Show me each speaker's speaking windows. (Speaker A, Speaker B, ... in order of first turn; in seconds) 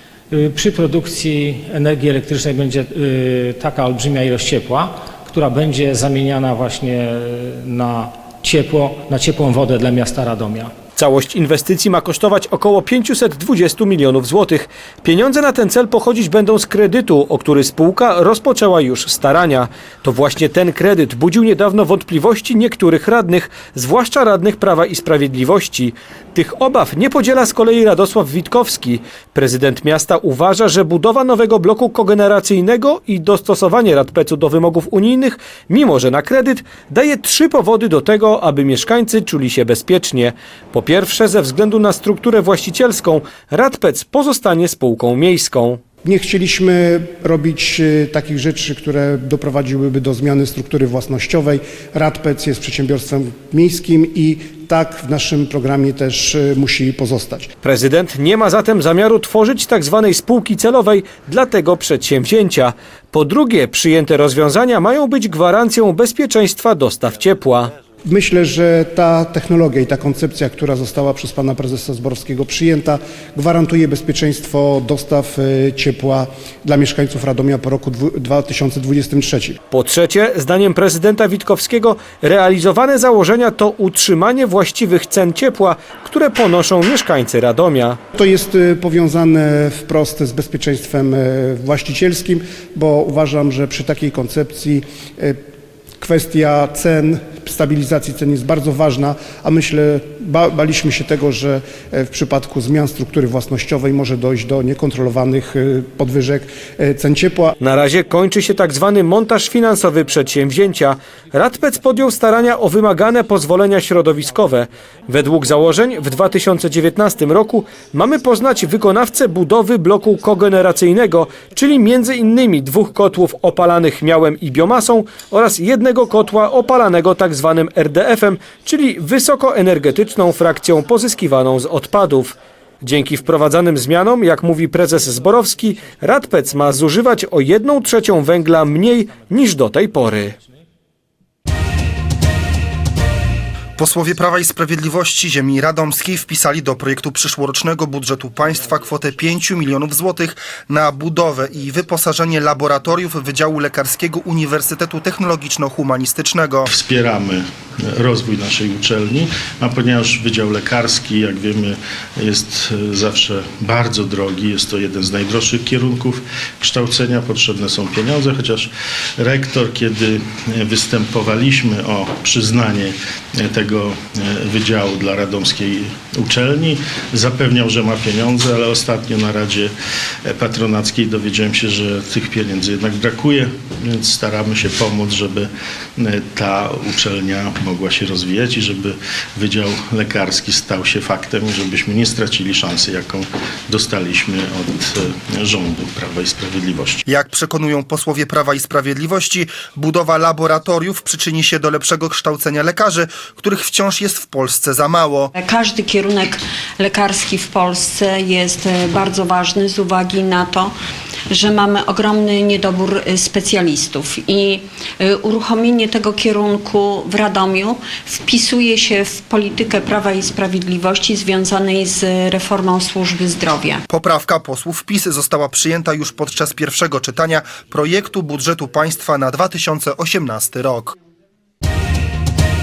Speaker A: 0.3-10.7
Speaker B: 10.9-45.8, 57.6-67.7, 79.7-88.0, 107.6-140.3
Speaker C: 46.0-57.5, 68.1-79.6, 88.1-95.4, 96.0-107.5
Speaker D: 143.8-156.7, 197.1-205.3, 223.9-230.9
Speaker E: 156.7-179.7, 180.3-197.0
Speaker F: 205.3-210.8, 211.3-223.8